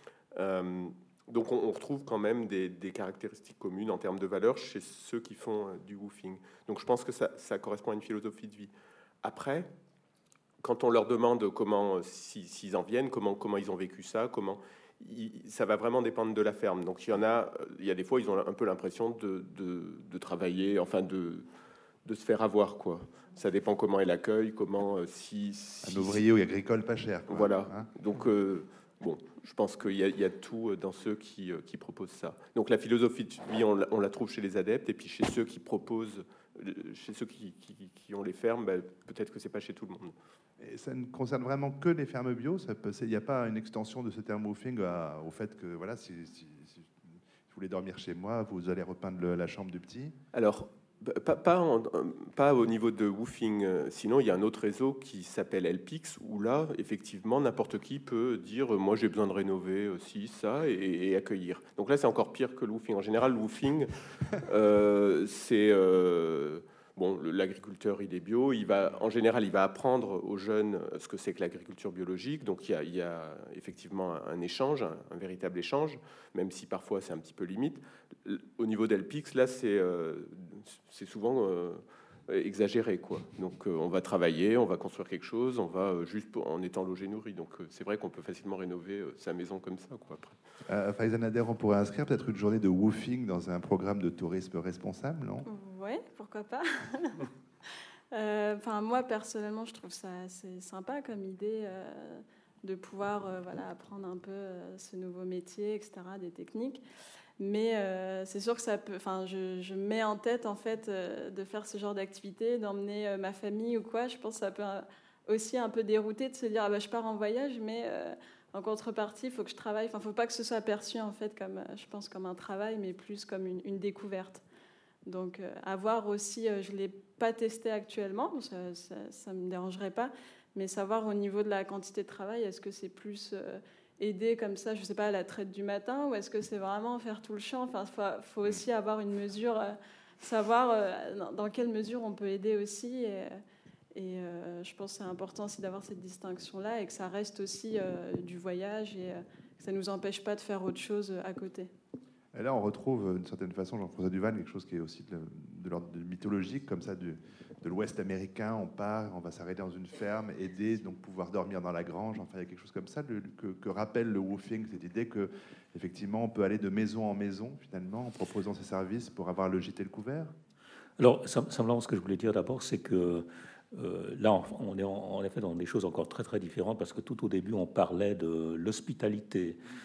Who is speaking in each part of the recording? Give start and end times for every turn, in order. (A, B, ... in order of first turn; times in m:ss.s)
0:00.3-0:08.7 A
0:09.2-0:09.7 A
0:10.6-0:21.4 A
0:22.0-0:26.2 A
0:25.8-0:27.9 B
0:27.3-0:40.2 A
0:40.6-0:46.9 B
0:47.5-0:50.2 B
0:50.3-1:30.4 A
1:30.7-1:35.5 B
1:35.5-1:37.3 C
1:38.1-1:46.8 C
1:47.4-2:04.4 C
2:05.0-2:23.4 C
2:24.0-2:31.7 C
2:32.3-2:50.3 B
2:51.0-2:59.6 D